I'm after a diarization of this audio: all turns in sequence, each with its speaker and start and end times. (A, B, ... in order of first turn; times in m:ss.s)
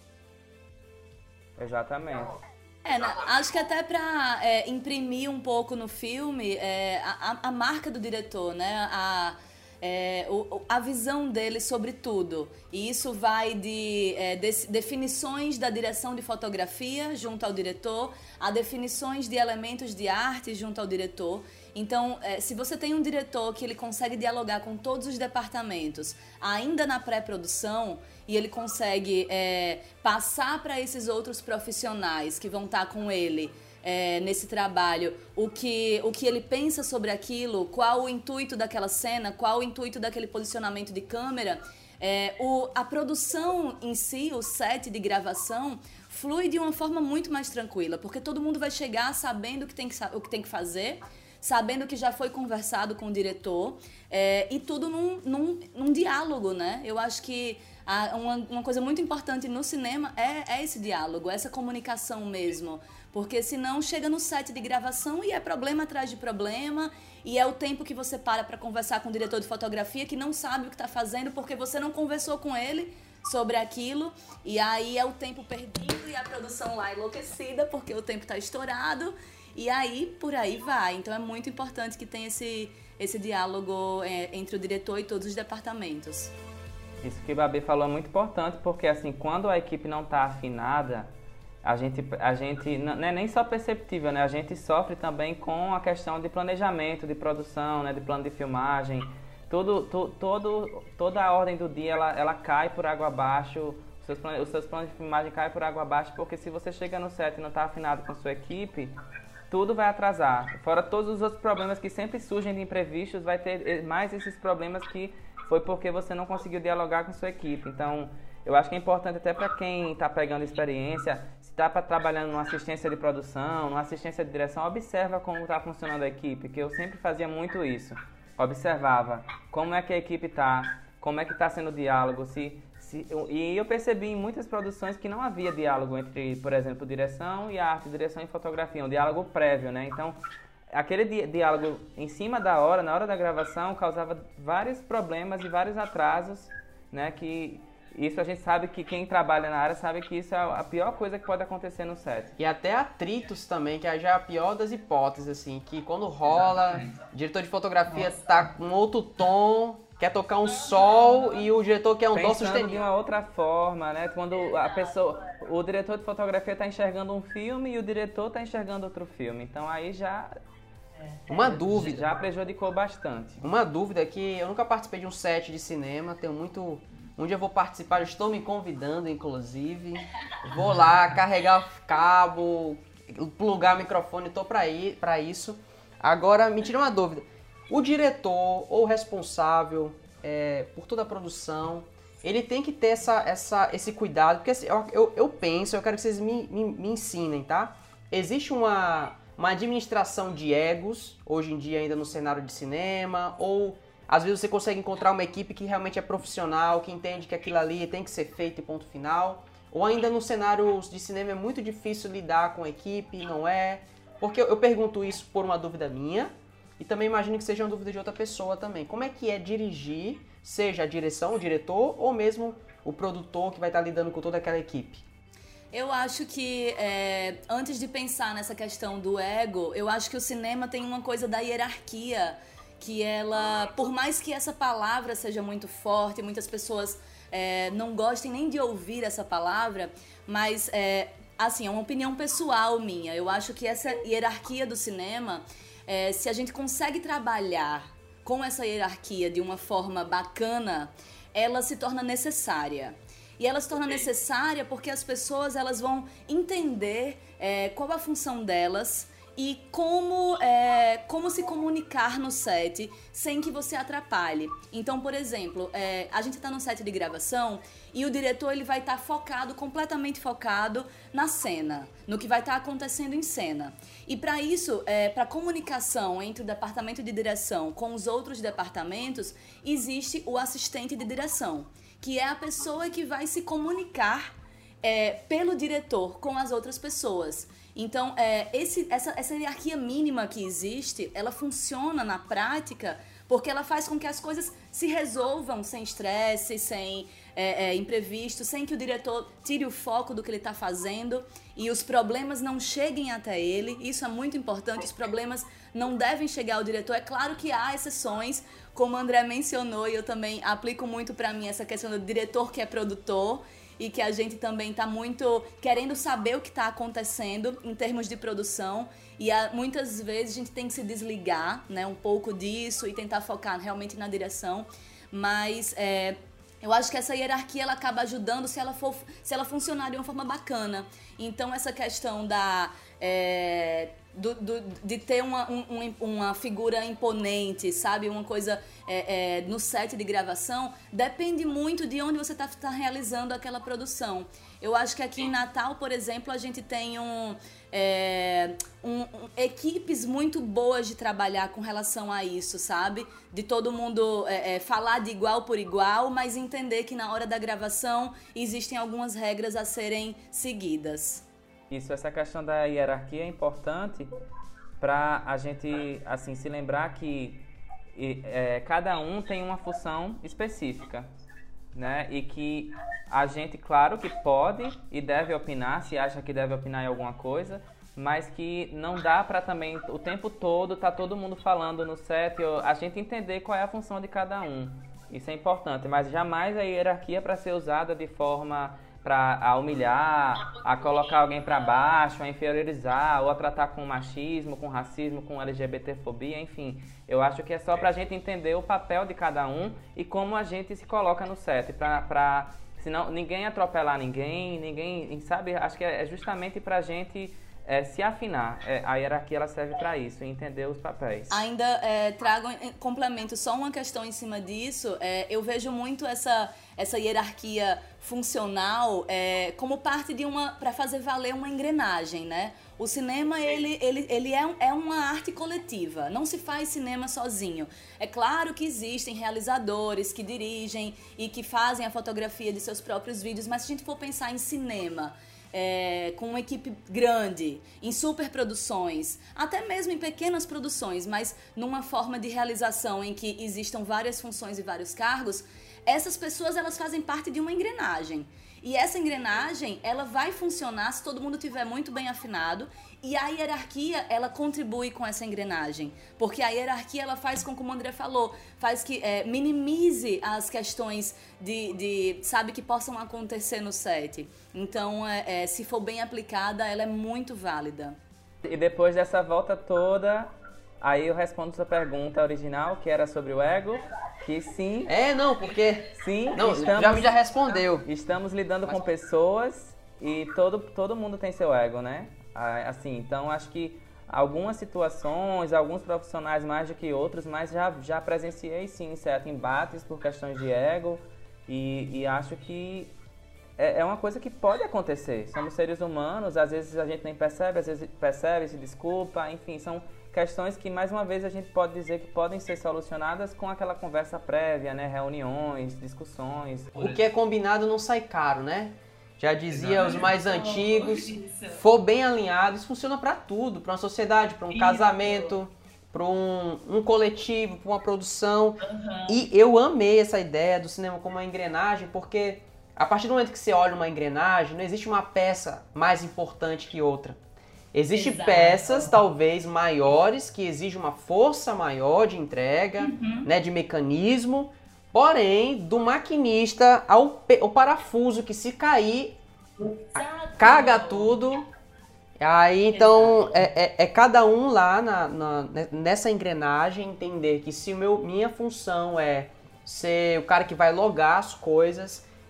0:01.6-0:02.4 A
0:02.8-1:26.3 B
1:27.0-1:31.1 A
1:31.6-1:49.0 A
1:49.5-2:20.2 A
2:20.7-2:32.4 A
2:32.4-2:42.8 C
2:42.1-2:50.3 A
2:51.3-2:52.1 C
2:51.3-2:53.4 A
2:53.4-3:45.0 C
3:45.7-6:01.2 B
6:01.7-6:04.2 A
6:04.8-6:07.4 A
6:07.9-6:11.1 A
6:11.7-6:51.4 A
6:51.3-7:48.0 B
7:48.4-7:54.9 A
7:54.9-7:57.9 C
7:55.9-8:12.9 A
8:13.6-8:26.9 A
8:26.8-8:47.2 C
8:29.7-8:31.6 B
8:34.5-8:35.4 B
8:38.6-8:39.2 B
8:47.7-8:59.2 C
8:47.9-8:49.0 B
8:52.8-8:53.3 B
8:59.6-9:01.2 B
9:00.0-9:01.4 C
9:02.2-9:12.1 C
9:02.7-9:03.2 B